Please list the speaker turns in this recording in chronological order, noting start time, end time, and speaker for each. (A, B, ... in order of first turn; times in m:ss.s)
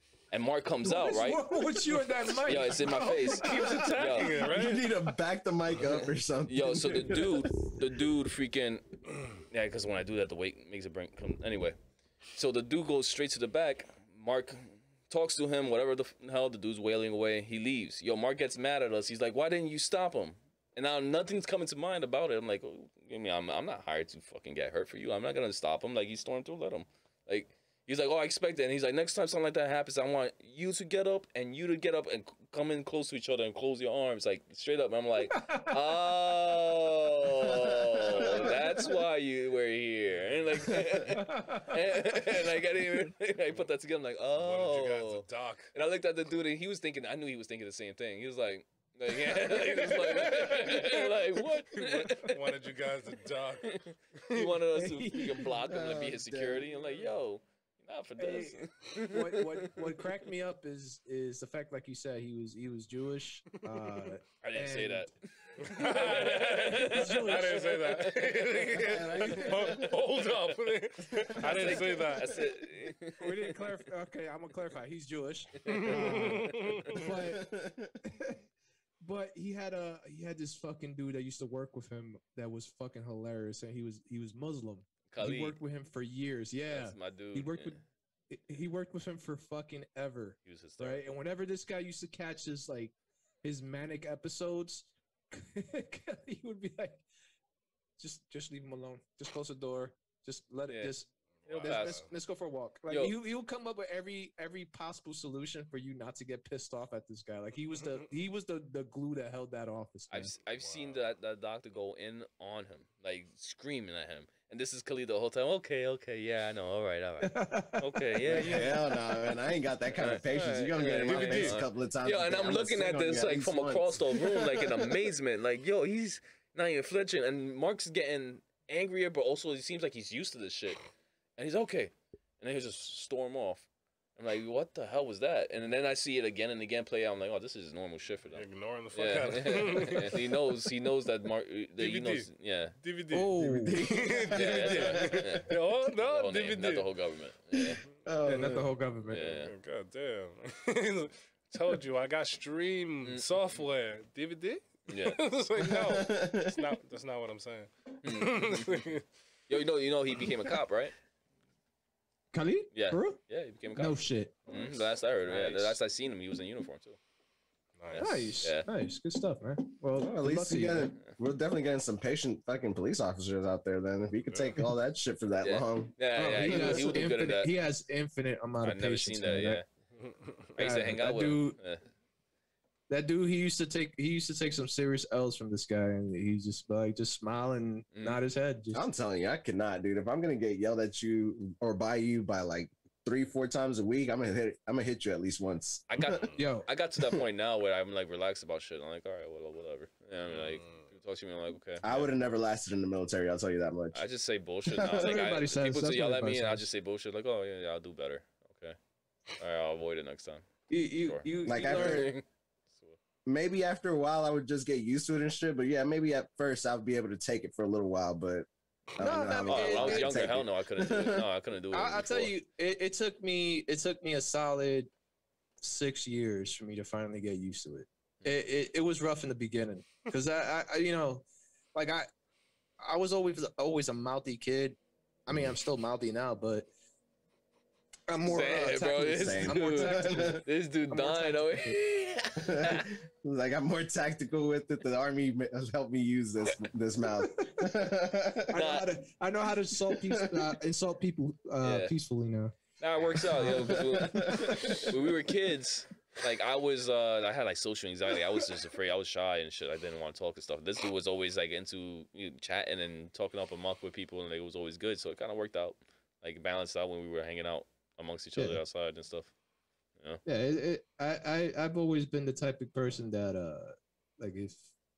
0:00.3-0:01.6 A
0:00.8-0:04.5 B
0:02.3-0:04.4 A
0:03.7-0:04.9 C
0:04.4-0:07.5 D
0:06.5-0:11.8 A
0:12.3-0:52.6 A
0:35.4-0:35.7 B
0:38.1-0:38.6 B
0:41.2-0:41.7 B
0:44.4-0:45.7 C
0:49.4-0:51.0 C
0:51.7-0:53.8 C
0:53.6-0:59.7 A
0:54.7-0:55.5 B
0:55.3-0:56.8 D
0:58.2-1:07.7 B
1:04.4-1:10.7 A
1:05.6-1:12.3 C
1:08.7-1:10.0 D
1:11.0-1:12.4 D
1:11.4-1:13.6 A
1:13.1-1:18.4 B
1:15.7-1:16.8 A
1:15.7-1:17.0 C
1:16.9-1:17.9 D
1:19.0-1:27.8 B
1:25.1-1:25.6 A
1:26.7-1:27.8 A
1:28.3-1:37.0 B
1:30.4-1:31.1 A
1:38.0-1:41.1 B
1:40.7-1:40.9 A
1:41.4-1:42.1 C
1:41.5-1:42.0 A
1:41.6-1:50.3 B
1:42.9-1:43.1 A
1:50.1-1:58.7 A
1:50.6-1:51.0 C
1:57.3-1:59.4 B
1:58.3-2:04.9 D
2:00.0-2:10.8 A
2:01.0-2:01.6 C
2:11.4-2:22.8 A
2:18.3-2:20.4 C
2:21.8-2:26.9 C
2:23.1-2:23.9 B
2:23.4-2:25.3 D
2:24.3-2:27.8 A
2:28.0-2:28.7 D
2:28.2-2:29.4 B
2:29.1-2:29.5 A
2:29.4-2:39.0 C
2:34.9-2:35.2 A
2:35.6-2:36.6 D
2:38.0-2:38.9 A
2:39.5-2:40.9 A
2:42.3-2:43.2 B
2:42.7-2:47.0 A
2:43.7-2:44.8 B
2:45.3-2:45.7 B
2:47.8-2:48.4 C
2:48.0-2:48.7 A
2:48.0-2:51.0 B
2:49.9-2:57.1 D
2:54.3-2:54.6 C
2:55.4-2:57.6 A
2:56.2-2:59.6 B
2:58.6-2:59.6 A
3:00.0-3:00.4 C
3:00.6-3:01.8 A
3:00.6-3:01.6 B
3:02.9-3:08.8 B
3:07.9-3:08.2 A
3:08.7-3:16.2 D
3:15.9-3:22.1 A
3:16.4-3:16.7 B
3:21.8-3:24.0 D
3:23.9-3:28.8 A
3:24.7-3:25.1 D
3:24.8-3:26.7 B
3:29.4-3:30.4 A
3:30.7-3:32.1 B
3:31.0-3:33.0 A
3:31.4-3:32.1 D
3:33.2-3:41.2 D
3:39.0-3:40.4 B
3:39.4-3:42.3 A
3:41.7-3:44.9 B
3:45.6-3:52.1 B
3:52.8-3:56.7 B
3:58.1-4:01.8 B
3:58.2-4:02.9 A
3:59.2-4:00.4 D
4:02.4-4:08.6 D
4:08.5-4:12.5 B
4:08.5-4:08.9 A
4:09.9-4:10.5 D
4:11.6-4:11.9 A
4:12.8-4:29.3 A
4:13.3-4:14.9 B
4:13.3-4:14.8 D
4:30.2-4:34.7 B